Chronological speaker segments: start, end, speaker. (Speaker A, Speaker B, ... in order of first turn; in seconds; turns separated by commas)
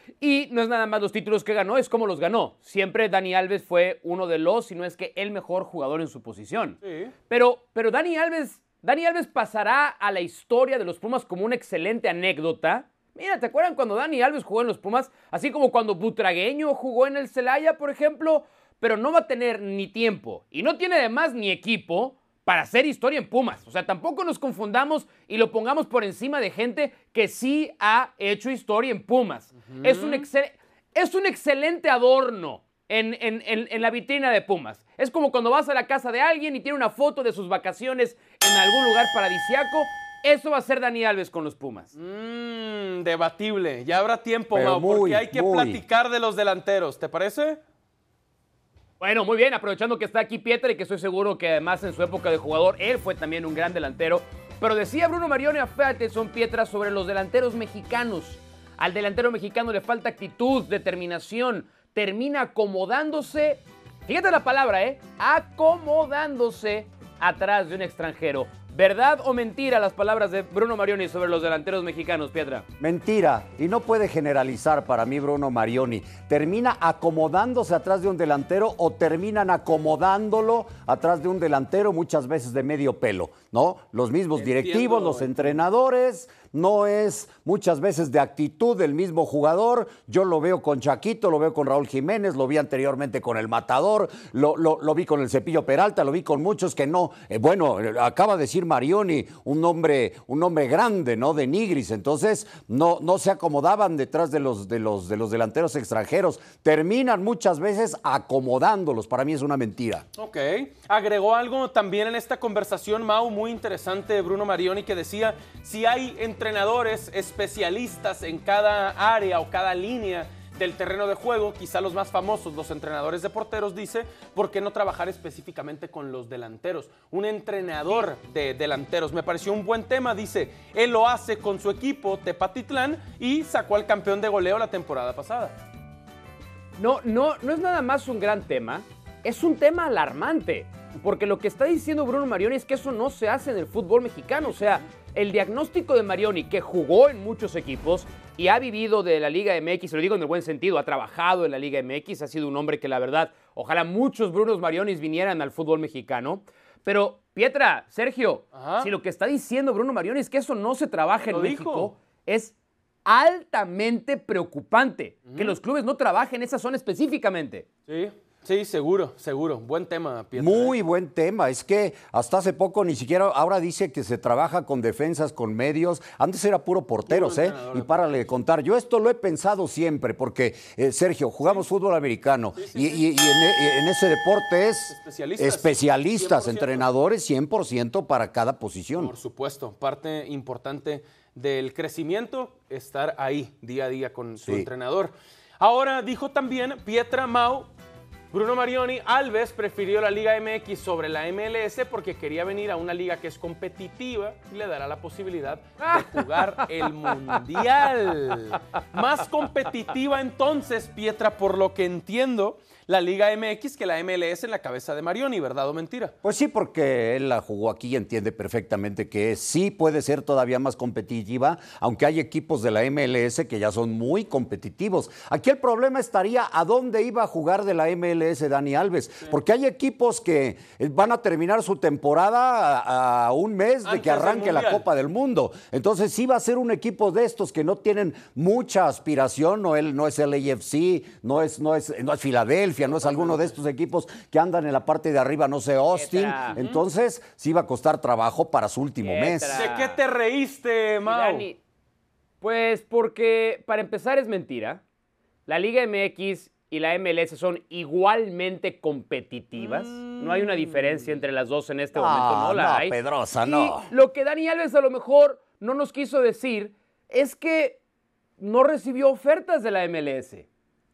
Speaker A: 0.2-41.9, Speaker B: 6.8-7.1, Speaker B: 29.7-30.3, Speaker B: 42.0-47.6, Speaker C: 44.5-45.8, Speaker A: 49.0-72.7, Speaker C: 72.8-110.0, Speaker B: 84.3-85.6, Speaker B: 110.2-135.6, Speaker A: 136.8-162.5, Speaker B: 158.5-158.9, Speaker B: 161.3-161.9, Speaker A: 163.1-167.7, Speaker B: 165.3-165.6, Speaker B: 167.9-170.8, Speaker C: 170.4-189.1, Speaker B: 177.1-178.2, Speaker B: 182.6-183.0, Speaker B: 184.9-186.9, Speaker B: 189.0-197.7, Speaker C: 194.4-194.7, Speaker B: 198.3-216.2, Speaker A: 205.8-206.7, Speaker C: 216.2-249.7, Speaker B: 233.8-234.8, Speaker B: 242.9-243.6, Speaker A: 245.9-246.6, Speaker B: 246.6-246.8, Speaker A: 249.0-250.0, Speaker B: 249.5-251.5, Speaker A: 251.1-251.6, Speaker A: 252.4-254.8, Speaker A: 255.5-267.8, Speaker B: 259.6-261.1, Speaker C: 261.9-263.9, Speaker A: 268.4-270.5